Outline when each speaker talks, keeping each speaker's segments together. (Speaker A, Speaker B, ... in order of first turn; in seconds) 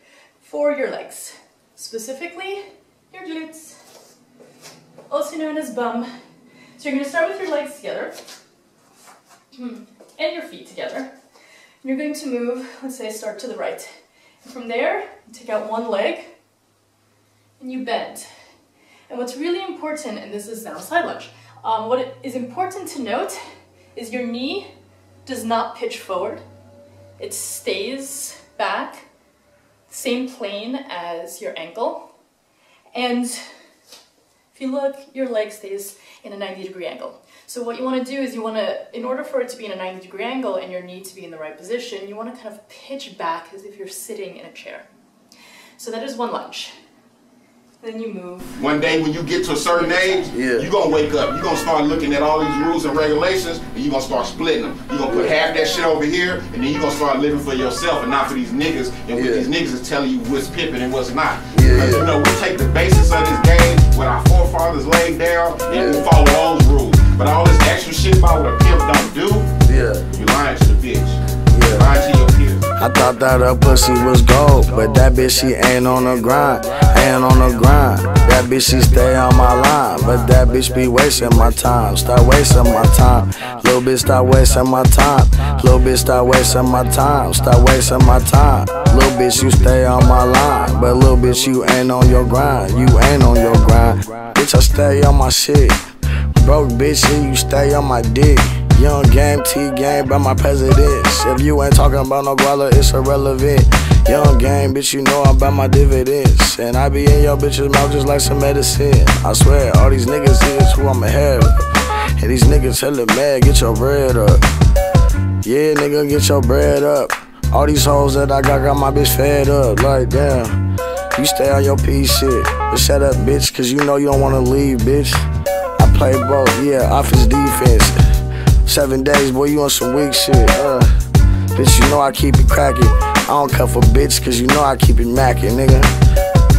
Speaker A: 0.4-3.8, 5.1-6.1, 6.8-8.2, 9.5-11.1, 11.8-13.9, 14.4-16.3, 17.6-18.3, 19.1-23.4, 23.9-24.7, 25.2-26.4, 27.2-29.1, 29.9-32.0, 32.9-33.5, 34.5-44.9, 45.8-46.7, 47.8-48.6, 49.7-50.3
Speaker B: 48.6-69.5, 70.1-71.2, 71.7-72.6
Speaker C: 50.3-50.7, 59.1-59.5, 61.5-62.1, 69.7-70.0, 71.5-71.9, 72.8-95.8, 96.3-114.4, 115.4-120.6, 121.1-125.2, 125.8-128.0, 128.6-130.9, 131.5-135.9